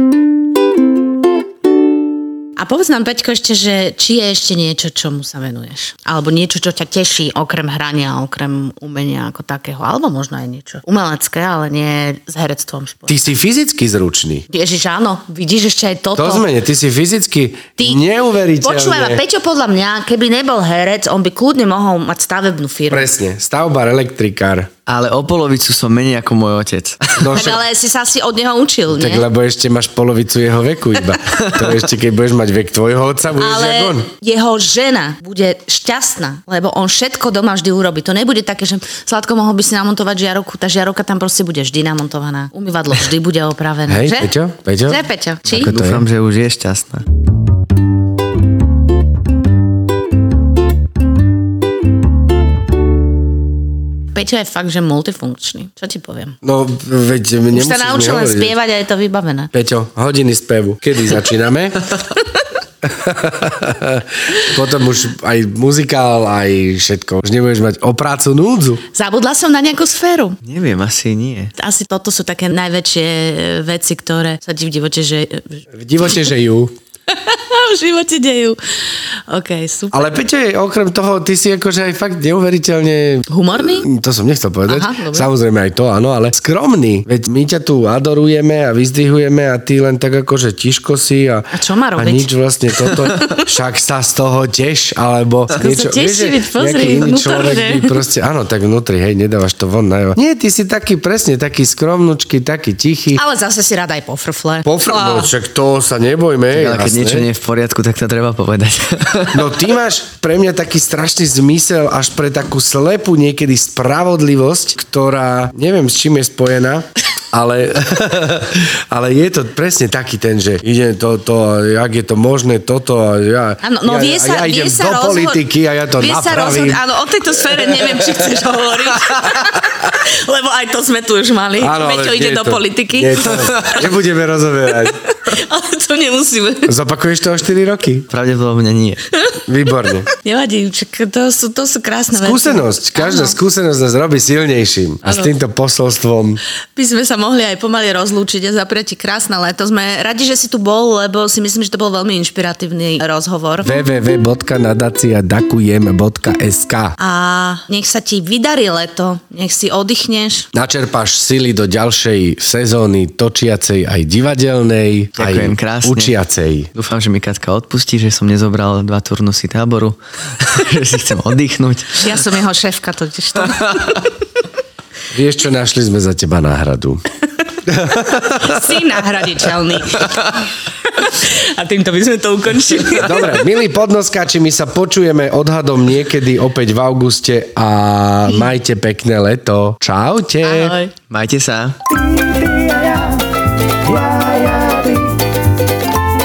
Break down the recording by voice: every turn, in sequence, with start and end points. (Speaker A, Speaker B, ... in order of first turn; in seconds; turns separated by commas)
Speaker A: 2.6-13.3, Speaker B: 13.1-14.4, Speaker A: 14.5-16.4, Speaker B: 16.2-19.2, Speaker A: 18.6-23.1, Speaker B: 22.9-24.7, Speaker C: 24.9-27.5, Speaker B: 27.2-27.6, Speaker A: 27.3-29.3, Speaker B: 28.9-34.1, Speaker C: 31.3-31.8, Speaker A: 33.4-44.3, Speaker B: 43.9-46.0, Speaker A: 44.9-45.7, Speaker C: 45.5-47.0, Speaker A: 54.1-56.4, Speaker B: 56.4-58.5, Speaker A: 57.5-59.5, Speaker B: 59.5-61.9, Speaker B: 62.8-68.8, Speaker A: 68.9-70.4, Speaker C: 70.4-71.5, Speaker A: 71.6-76.3, Speaker B: 75.7-76.7, Speaker A: 77.1-80.1, Speaker B: 79.9-103.2, Speaker A: 83.3-83.9, Speaker A: 84.7-85.3, Speaker A: 91.5-93.5, Speaker A: 95.6-98.0, Speaker A: 103.1-105.3, Speaker B: 104.7-107.3, Speaker C: 106.5-109.5, Speaker B: 109.3-126.8, Speaker A: 123.6-125.4, Speaker A: 126.0-133.8, Speaker B: 127.5-129.6, Speaker B: 131.6-135.0, Speaker C: 133.3-133.8, Speaker A: 134.8-136.8, Speaker B: 136.7-138.1, Speaker C: 138.1-139.0, Speaker B: 139.5-140.1, Speaker A: 140.1-143.4, Speaker B: 142.1-146.4, Speaker A: 145.1-145.3, Speaker A: 146.8-153.8, Speaker B: 153.6-157.0, Speaker A: 157.0-160.5, Speaker B: 160.5-166.7, Speaker C: 165.2-166.2, Speaker C: 166.7-172.2, Speaker A: 172.0-174.1, Speaker C: 173.5-173.8, Speaker B: 175.1-177.0, Speaker B: 177.6-179.0, Speaker A: 178.1-183.4, Speaker B: 183.0-190.8, Speaker A: 190.4-190.9, Speaker C: 191.1-191.8, Speaker B: 191.9-193.3, Speaker B: 193.8-195.2